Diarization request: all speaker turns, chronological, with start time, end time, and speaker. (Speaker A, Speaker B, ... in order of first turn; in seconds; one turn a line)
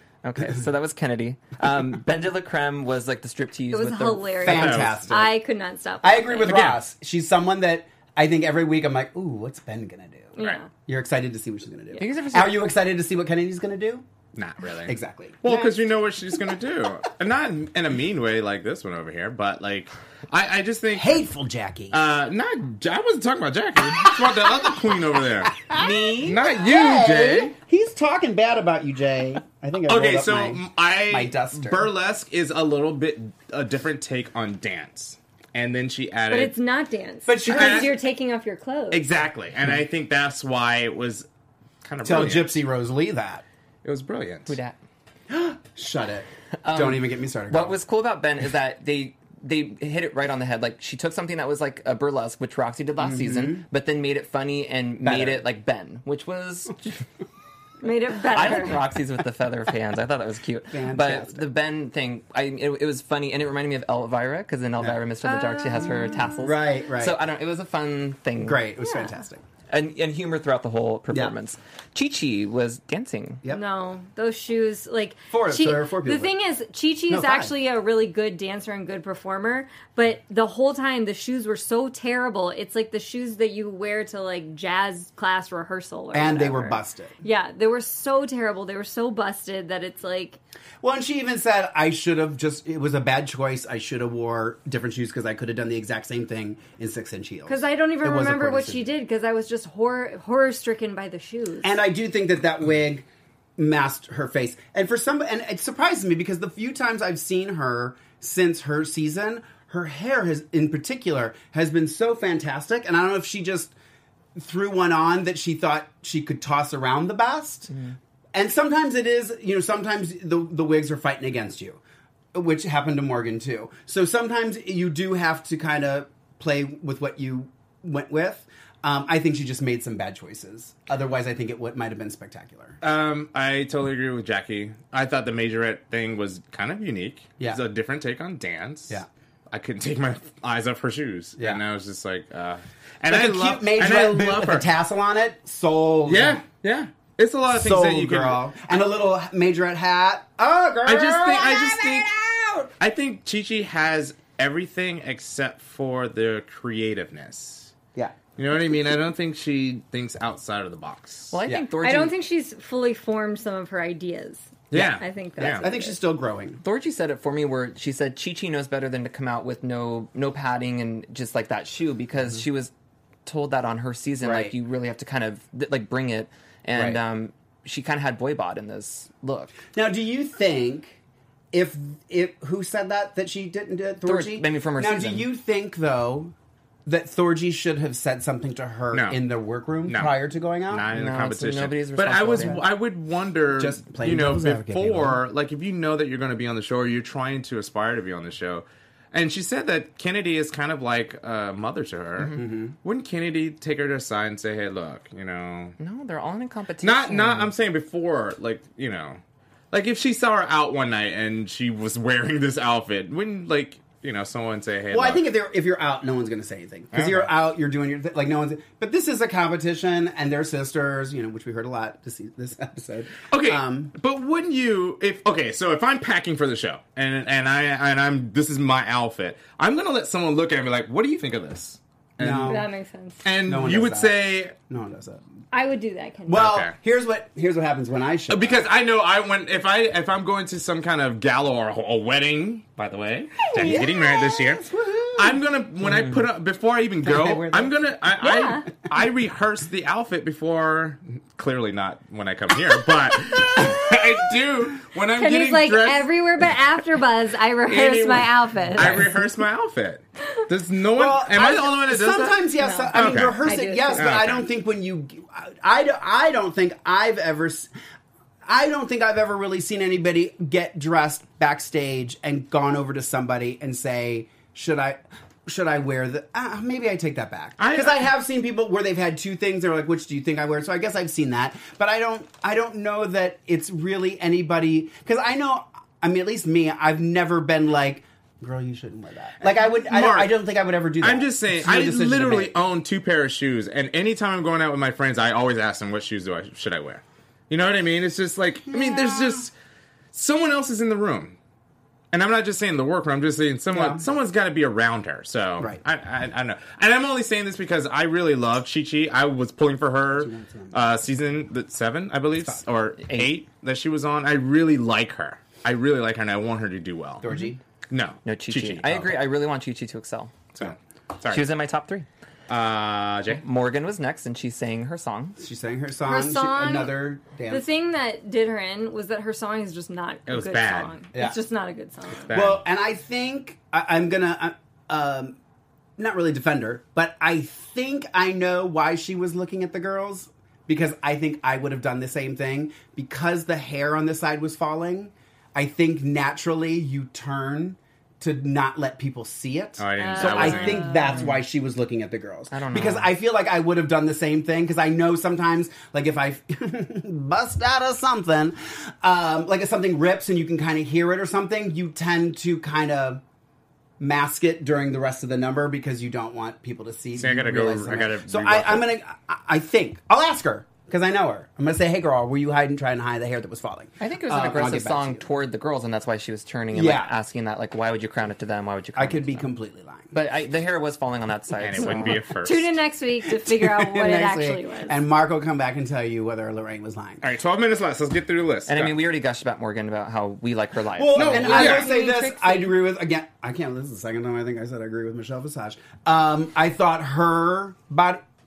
Speaker A: 0.2-4.5
Speaker B: 3.7-6.5
Speaker C: 4.4-5.3
Speaker D: 4.5-5.1
Speaker C: 6.0-14.0
Speaker D: 6.5-6.8
Speaker B: 10.3-10.7
Speaker A: 12.0-12.7
Speaker D: 14.3-21.2
Speaker C: 14.8-15.8
Speaker C: 20.9-22.0
Speaker D: 21.9-25.6
Speaker C: 23.8-24.8
Speaker C: 25.5-31.9
Speaker A: 25.7-26.4
Speaker D: 26.2-27.5
Speaker D: 29.9-36.5
Speaker B: 36.3-39.0
Speaker C: 37.2-38.0
Speaker D: 37.5-37.9
Speaker D: 38.9-41.3
Speaker D: 41.8-42.6
Speaker C: 42.0-43.4
Speaker D: 43.8-44.6
Speaker A: 44.5-44.8
Speaker C: 45.3-47.8
Speaker A: 46.6-57.0
Speaker C: 53.0-53.6
Speaker C: 55.0-55.4
Speaker B: 57.8-58.8
Speaker A: 58.3-68.6
Speaker C: 60.7-61.4
Speaker B: 65.2-66.3
Speaker C: 66.3-67.2
Speaker C: 68.4-69.4
Speaker B: 68.8-69.1
Speaker A: 69.7-73.4
Speaker B: 73.5-90.4
Speaker C: 75.3-76.3
Speaker C: 77.1-77.5
Speaker C: 86.1-87.1
Speaker C: 90.8-98.9
Speaker B: 97.5-101.8
Speaker C: 101.6-103.0
Speaker C: 103.6-113.7
Speaker C: 114.3-117.7
Speaker C: 118.3-121.8
Speaker C: 122.3-132.8
Speaker D: 132.8-144.7
Speaker C: 143.1-146.4
Speaker D: 146.1-148.4
Speaker C: 147.5-152.7
Speaker D: 150.8-152.1
Speaker D: 152.8-157.7
Speaker D: 158.4-161.3
Speaker A: 161.3-162.1
Speaker B: 161.8-165.9
Speaker D: 164.7-165.6
Speaker C: 164.7-166.6
Speaker A: 166.6-172.7
Speaker A: 173.2-179.5
Speaker C: 174.2-174.5
Speaker C: 176.7-177.0
Speaker C: 179.7-181.0
Speaker C: 181.5-186.3
Speaker A: 184.0-185.3
Speaker C: 186.8-190.9
Speaker D: 188.9-189.2
Speaker D: 189.9-190.2
Speaker D: 190.7-205.8
Speaker A: 190.9-192.6
Speaker C: 192.3-192.6
Speaker C: 193.5-195.2
Speaker A: 202.2-202.4
Speaker C: 202.3-202.8
Speaker A: 205.8-207.5
Speaker D: 206.8-209.2
Speaker D: 209.7-215.2
Speaker C: 214.9-223.9
Speaker D: 216.9-217.3
Speaker D: 223.3-232.6
Speaker C: 232.2-232.7
Speaker B: 232.4-233.2
Speaker D: 233.2-234.5
Speaker C: 233.4-235.2
Speaker B: 235.5-236.4
Speaker C: 236.3-238.6
Speaker D: 236.3-236.7
Speaker D: 238.3-256.1
Speaker C: 243.5-246.1
Speaker C: 247.0-247.7
Speaker B: 248.2-248.7
Speaker C: 253.5-253.9
Speaker B: 255.2-259.1
Speaker D: 257.7-262.4
Speaker C: 258.8-259.1
Speaker C: 260.9-267.7
Speaker B: 262.6-264.1
Speaker D: 262.9-263.4
Speaker D: 263.9-264.4
Speaker C: 268.4-292.5
Speaker D: 277.6-278.1
Speaker D: 289.4-290.3
Speaker D: 291.0-299.5
Speaker C: 298.7-299.5
Speaker D: 300.1-301.4
Speaker D: 302.1-317.2
Speaker C: 303.7-304.0
Speaker C: 310.1-310.8
Speaker C: 312.4-312.6
Speaker A: 313.1-313.3
Speaker C: 317.2-317.6
Speaker D: 317.9-319.2
Speaker A: 318.2-320.3
Speaker D: 320.5-321.4
Speaker A: 321.3-322.1
Speaker D: 322.5-323.4
Speaker A: 323.3-325.4
Speaker C: 325.4-327.6
Speaker B: 326.1-326.9
Speaker B: 327.5-332.4
Speaker D: 330.3-330.9
Speaker D: 332.3-332.6
Speaker C: 332.3-335.4
Speaker C: 336.0-363.2
Speaker D: 349.8-351.2
Speaker B: 350.0-351.3
Speaker A: 352.5-353.1
Speaker C: 364.0-375.3
Speaker D: 367.1-368.9
Speaker A: 374.0-379.5
Speaker C: 376.7-377.1
Speaker C: 378.9-380.1
Speaker A: 380.1-382.2
Speaker D: 381.6-382.7
Speaker B: 382.2-385.0
Speaker C: 383.3-387.2
Speaker D: 387.2-388.9
Speaker A: 388.7-392.7
Speaker C: 390.9-398.2
Speaker D: 391.1-391.9